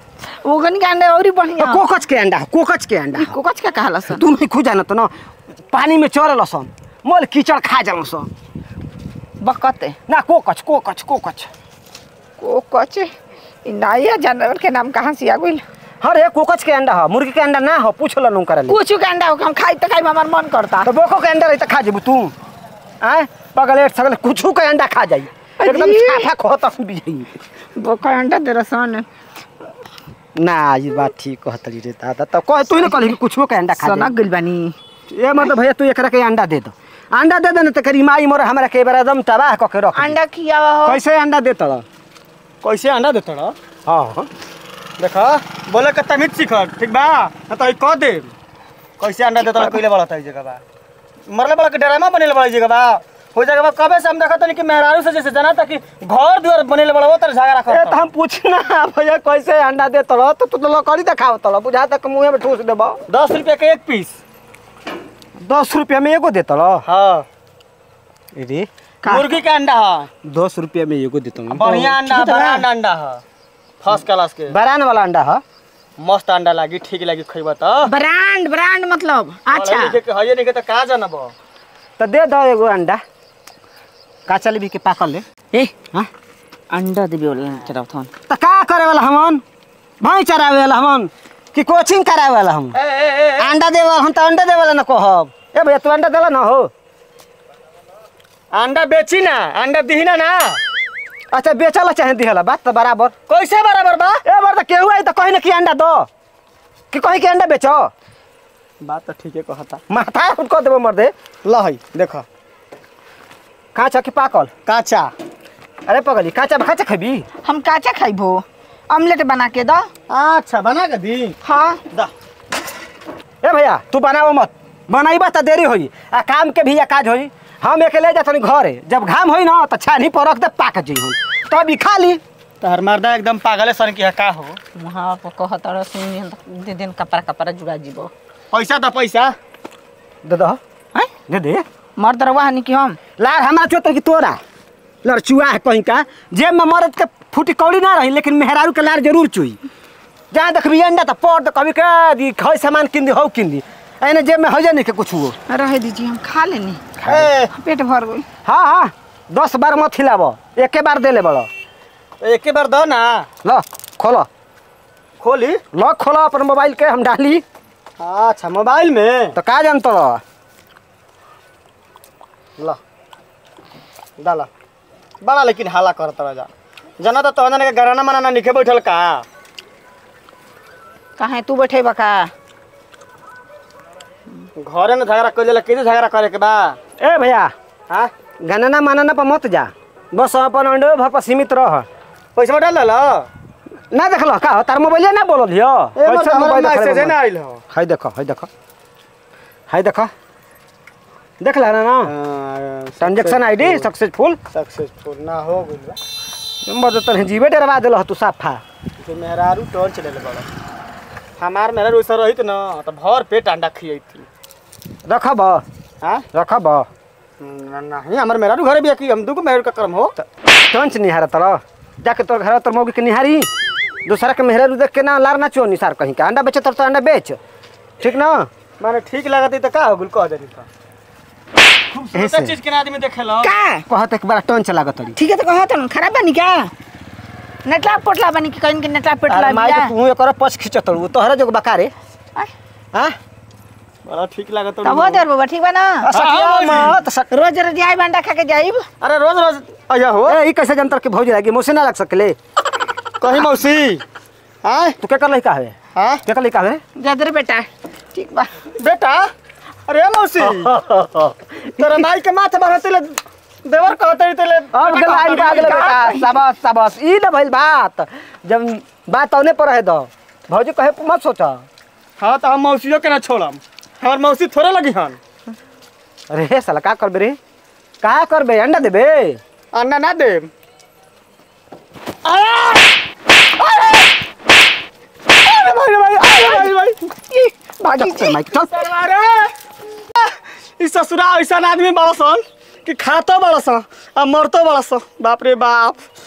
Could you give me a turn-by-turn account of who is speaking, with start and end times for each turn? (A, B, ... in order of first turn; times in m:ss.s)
0:00.4-0:01.8 A
0:01.6-0:03.4 B
0:03.2-0:04.2 A
0:04.1-0:05.1 B
0:05.7-0:08.3 B
0:09.4-0:10.0 A
0:10.1-0:11.5 B
0:12.4-0:13.1 A
0:13.6-0:15.6 A
0:16.0-0:18.8 B
0:18.7-0:20.9 A
0:20.8-0:22.3 B
0:23.0-0:27.3 B
0:25.6-0:26.3 A
0:27.8-0:29.1 A
0:30.4-0:34.1 B
0:33.8-0:34.8 A
0:35.1-0:40.2 B
0:40.0-0:41.0 A
0:40.9-0:41.8 B
0:42.6-0:43.6 C
0:43.9-0:44.3 B
0:45.0-0:48.3 C
0:49.0-0:50.6 C
0:51.3-0:58.1 C
0:57.7-1:03.0 B
1:03.1-1:04.2 C
1:05.4-1:06.9 B
1:06.8-1:07.3 C
1:08.4-1:09.2 B
1:09.0-1:10.1 C
1:10.2-1:12.6 B
1:11.5-1:13.2 C
1:12.1-1:12.6 A
1:13.8-1:14.6 C
1:14.5-1:15.4 B
1:16.0-1:17.9 C
1:17.8-1:20.0 A
1:19.5-1:21.3 C
1:22.0-1:23.0 B
1:24.3-1:25.2 B
1:26.7-1:28.1 A
1:28.3-1:29.4 B
1:30.0-1:32.8 B
1:32.8-1:33.5 C
1:33.4-1:36.7 B
1:38.5-1:40.6 C
1:41.3-1:43.1 B
1:43.3-1:44.2 C
1:44.2-1:46.1 B
1:46.9-1:47.9 B
1:48.8-1:49.8 C
1:49.9-1:51.1 B
1:51.4-1:52.2 C
1:53.8-1:54.5 B
1:54.7-1:55.1 C
1:55.9-1:57.2 B
1:57.4-1:59.9 A
2:00.1-2:01.4 C
2:01.4-2:01.8 A
2:03.4-2:12.2 B
2:12.6-2:14.6 C
2:14.8-2:18.1 A
2:18.5-2:19.4 C
2:20.2-2:20.6 B
2:21.3-2:21.6 B
2:22.0-2:23.0 A
2:23.2-2:24.4 B
2:25.0-2:29.6 B
2:30.3-2:35.4 B
2:35.5-2:36.9 A
2:37.0-2:37.5 C
2:37.5-2:38.2 A
2:38.4-2:41.5 B
2:42.2-2:43.3 C
2:43.4-2:44.3 B
2:45.2-2:45.6 C
2:45.7-2:47.4 B
2:48.0-2:49.4 C
2:49.4-2:50.2 B
2:54.2-2:54.5 C
2:55.2-2:59.2 C
3:01.2-3:02.3 A
3:04.6-3:06.8 C
3:07.0-3:07.5 B
3:08.4-3:11.9 B
3:12.4-3:13.3 C
3:13.9-3:17.2 B
3:16.0-3:17.6 C
3:17.7-3:18.5 B
3:19.7-3:20.1 B
3:21.4-3:22.1 B
3:22.0-3:23.9 C
3:23.0-3:24.4 B
3:24.5-3:26.0 C
3:26.6-3:28.6 B
3:29.0-3:30.5 C
3:31.4-3:34.3 C
3:35.0-3:35.6 B
3:36.3-3:36.9 B
3:37.4-3:40.2 C
3:40.7-3:43.5 B
3:44.0-3:47.4 B
3:48.0-3:48.5 B
3:48.8-3:50.7 C
3:51.9-3:53.5 C
3:52.1-3:52.6 B
3:53.4-3:53.8 A
3:53.9-3:55.2 B
3:55.2-3:56.7 A
3:57.6-3:59.9 A
3:59.3-4:01.9 B
4:04.0-4:05.2 C
4:04.8-4:06.1 A
4:06.0-4:07.3 B
4:06.1-4:07.0 C
4:07.3-4:08.9 A
4:09.0-4:10.4 C
4:10.3-4:12.4 B
4:13.2-4:14.0 C
4:14.6-4:15.0 C
4:15.0-4:16.8 B
4:15.9-4:16.2 C
4:17.0-4:18.5 A
4:18.8-4:19.3 C
4:19.9-4:20.7 C
4:20.4-4:22.0 B
4:21.8-4:26.1 C
4:24.7-4:31.6 B
4:25.6-4:26.2 A
4:32.2-4:35.2 C
4:36.3-4:37.4 B
4:38.0-4:39.4 B
4:39.7-4:40.5 C
4:42.2-4:42.9 C
4:43.7-4:44.0 C
4:45.4-4:47.0 C
4:46.3-4:46.7 A
4:47.3-4:48.4 A
4:47.9-4:48.9 B
4:48.7-4:49.5 C
4:50.2-4:56.1 C